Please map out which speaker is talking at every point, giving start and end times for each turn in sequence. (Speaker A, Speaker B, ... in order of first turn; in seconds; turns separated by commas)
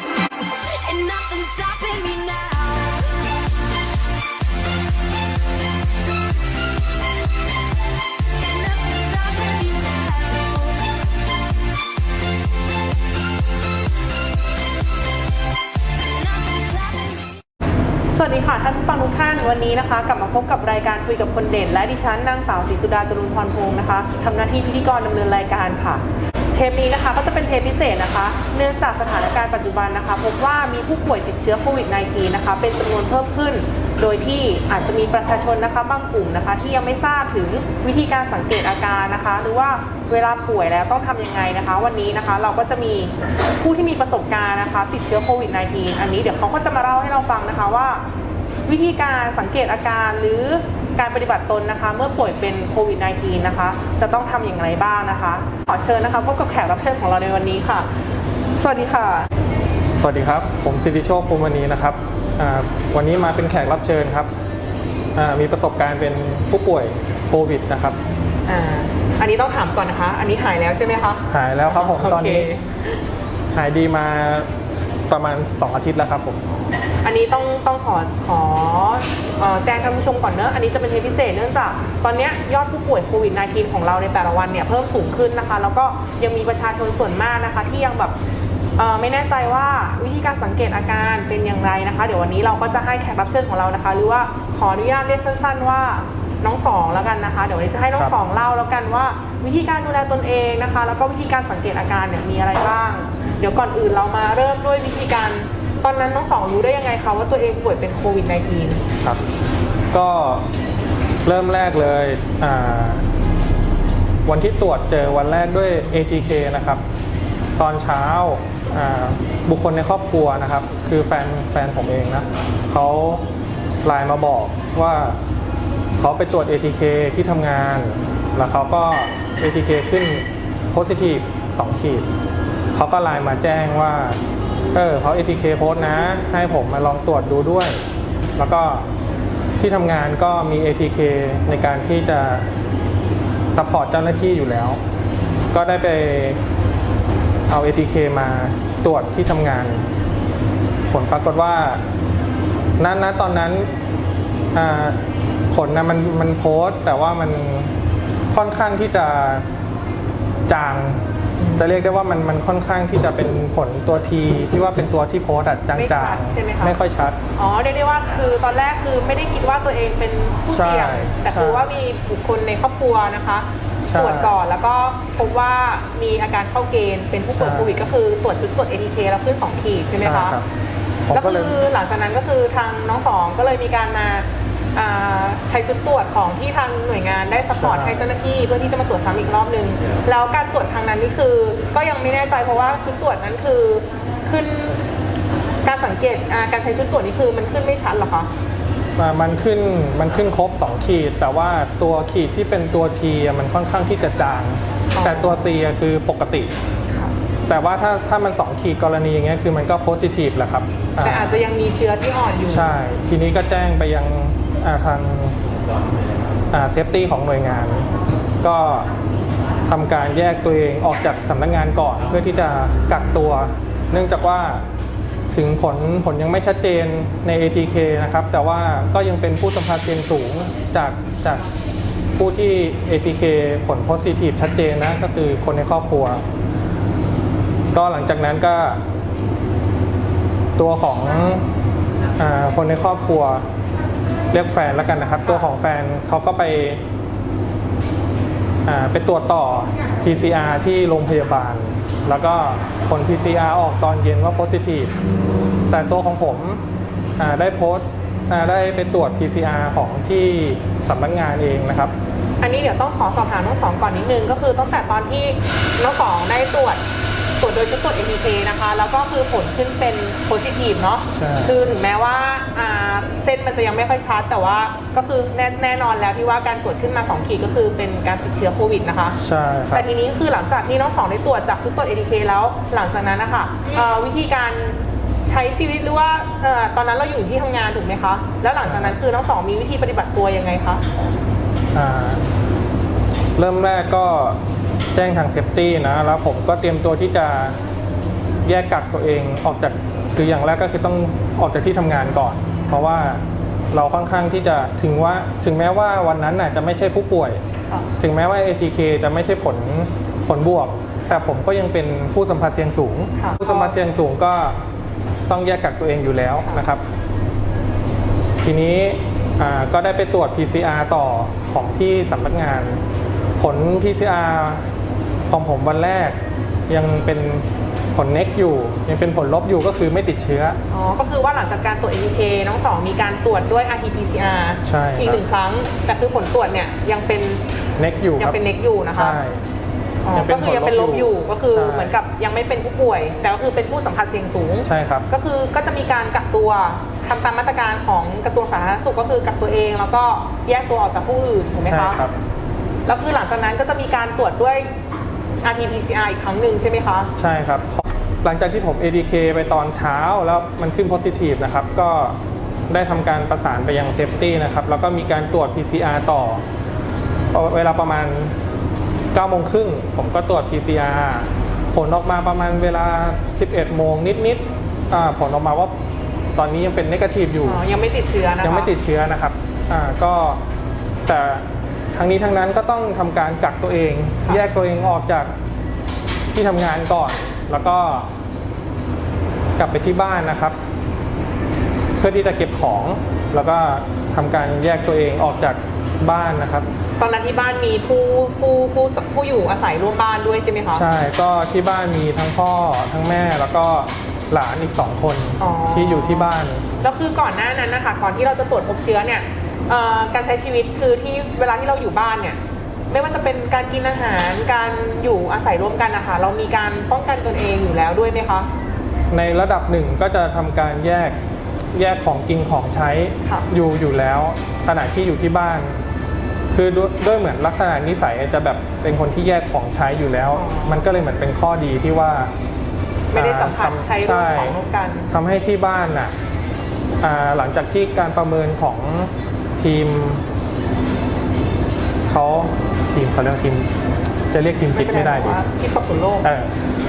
Speaker A: 0.4-4.1, Speaker A: 8.2-13.6, Speaker A: 15.8-17.4, Speaker B: 18.1-26.0, Speaker B: 26.5-48.0, Speaker B: 48.7-57.9, Speaker B: 58.6-59.3, Speaker C: 60.0-64.3, Speaker C: 65.2-68.0, Speaker B: 68.5-73.0, Speaker C: 71.3-72.5, Speaker C: 73.5-74.5, Speaker C: 75.1-76.5, Speaker B: 77.0-88.2, Speaker B: 88.8-108.8, Speaker C: 109.9-110.5, Speaker C: 111.2-113.1, Speaker C: 114.2-116.8, Speaker C: 117.6-123.2, Speaker C: 123.8-125.2, Speaker C: 126.0-132.1, Speaker C: 132.7-134.2, Speaker C: 134.7-137.8, Speaker C: 138.4-138.9, Speaker C: 139.6-142.5, Speaker C: 143.5-144.8, Speaker C: 145.5-146.4, Speaker C: 147.5-149.9, Speaker C: 150.9-151.8, Speaker C: 152.8-153.7, Speaker C: 154.5-157.7, Speaker C: 158.3-159.5, Speaker C: 160.5-161.1, Speaker B: 161.4-161.9, Speaker C: 161.6-167.2, Speaker B: 165.8-166.8, Speaker B: 167.4-180.4, Speaker C: 170.5-171.7, Speaker C: 173.8-174.3, Speaker C: 177.3-177.8, Speaker C: 180.0-180.5, Speaker C: 181.1-181.6, Speaker B: 181.1-194.8, Speaker C: 187.6-188.1, Speaker B: 195.6-198.3, Speaker C: 199.0-206.5, Speaker B: 204.9-205.5, Speaker C: 207.5-211.3, Speaker B: 211.0-212.8, Speaker C: 212.4-215.4, Speaker C: 216.5-217.9, Speaker C: 218.4-218.9, Speaker C: 219.7-224.6, Speaker C: 225.3-231.4, Speaker C: 232.2-236.2, Speaker C: 237.7-238.8, Speaker C: 240.6-241.5, Speaker C: 242.2-243.4, Speaker C: 244.3-246.8, Speaker C: 248.7-254.9, Speaker C: 255.7-256.6, Speaker C: 257.2-261.9, Speaker B: 262.4-266.8, Speaker B: 267.4-279.2, Speaker C: 271.1-271.6, Speaker C: 279.2-279.9, Speaker B: 279.7-290.9, Speaker C: 288.6-289.0, Speaker C: 291.7-292.3, Speaker C: 293.4-294.4, Speaker C: 294.9-297.6, Speaker C: 298.4-307.4, Speaker C: 308.0-314.6, Speaker B: 313.2-313.8, Speaker C: 315.3-316.8, Speaker C: 318.4-322.8, Speaker C: 323.4-324.6, Speaker C: 325.3-326.2, Speaker C: 326.7-330.6, Speaker B: 330.7-337.4, Speaker C: 334.6-335.2, Speaker C: 337.8-338.4, Speaker B: 338.2-339.2, Speaker C: 338.9-339.4, Speaker B: 340.0-352.0, Speaker C: 340.1-341.9, Speaker C: 344.6-345.1, Speaker C: 351.7-352.1, Speaker B: 352.9-354.7, Speaker B: 355.4-357.1, Speaker C: 357.1-362.2, Speaker C: 362.7-366.4, Speaker C: 367.3-368.4, Speaker C: 369.1-375.8, Speaker C: 376.4-377.6, Speaker B: 377.4-378.7, Speaker C: 378.4-380.4, Speaker C: 381.1-385.3, Speaker C: 386.3-388.1, Speaker C: 389.6-390.6, Speaker C: 392.0-396.7, Speaker B: 397.0-400.9, Speaker C: 400.7-406.7, Speaker B: 405.4-412.4, Speaker B: 412.9-418.5, Speaker C: 419.1-421.2, Speaker C: 421.7-425.8, Speaker C: 426.5-432.3, Speaker B: 430.4-430.8, Speaker B: 433.1-435.1, Speaker C: 433.1-434.6, Speaker C: 435.1-436.1, Speaker C: 437.0-440.2, Speaker C: 442.1-443.7, Speaker C: 444.3-445.4, Speaker B: 444.6-446.3, Speaker C: 446.2-446.6